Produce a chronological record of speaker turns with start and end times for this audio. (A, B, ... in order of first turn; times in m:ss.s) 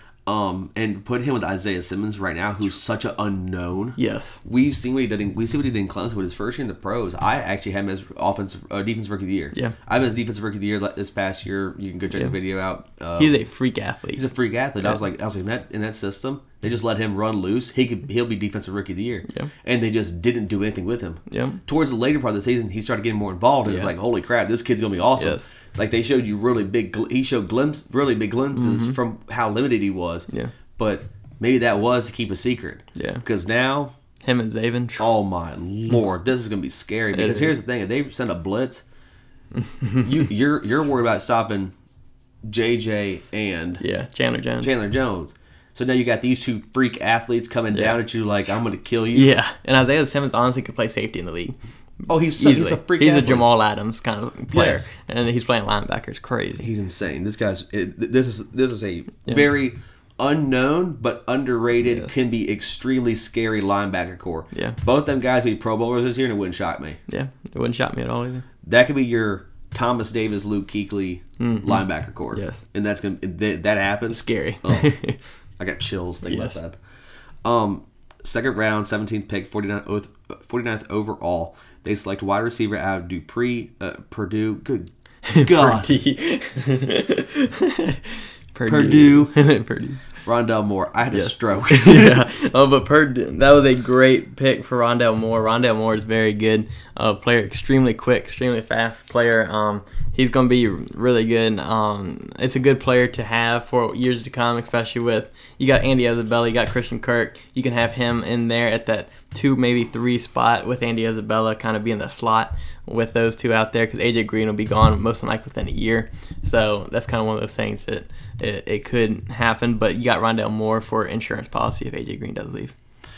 0:00.2-0:13.3 A
0:04.0-0:04.4 B
0:13.2-0:14.2 B
0:14.2-0:33.9 A
0:21.3-0:21.6 B
0:23.6-0:23.9 B
0:25.2-0:25.4 B
0:28.5-0:29.0 B
0:30.3-0:30.5 B
0:32.9-0:33.2 B
0:34.2-0:35.0 B
0:35.0-0:38.8 A
0:37.1-0:37.5 B
0:39.5-0:40.1 B
0:40.0-0:41.7 A
0:42.4-0:43.8 A
0:43.8-0:44.7 B
0:44.6-0:49.4 A
0:47.7-0:48.0 B
0:49.1-0:51.6 B
0:52.1-0:53.4 A
0:52.4-0:56.7 B
0:54.5-0:54.8 A
0:56.6-1:07.0 A
1:01.8-1:02.1 B
1:04.5-1:04.8 B
1:07.1-1:08.5 B
1:08.6-1:15.0 A
1:11.4-1:11.8 B
1:12.3-1:12.6 B
1:14.1-1:15.2 B
1:15.6-1:16.8 A
1:16.2-1:16.6 B
1:17.4-1:25.9 A
1:25.2-1:30.0 B
1:28.6-1:29.4 A
1:30.2-1:32.2 A
1:31.1-2:02.7 B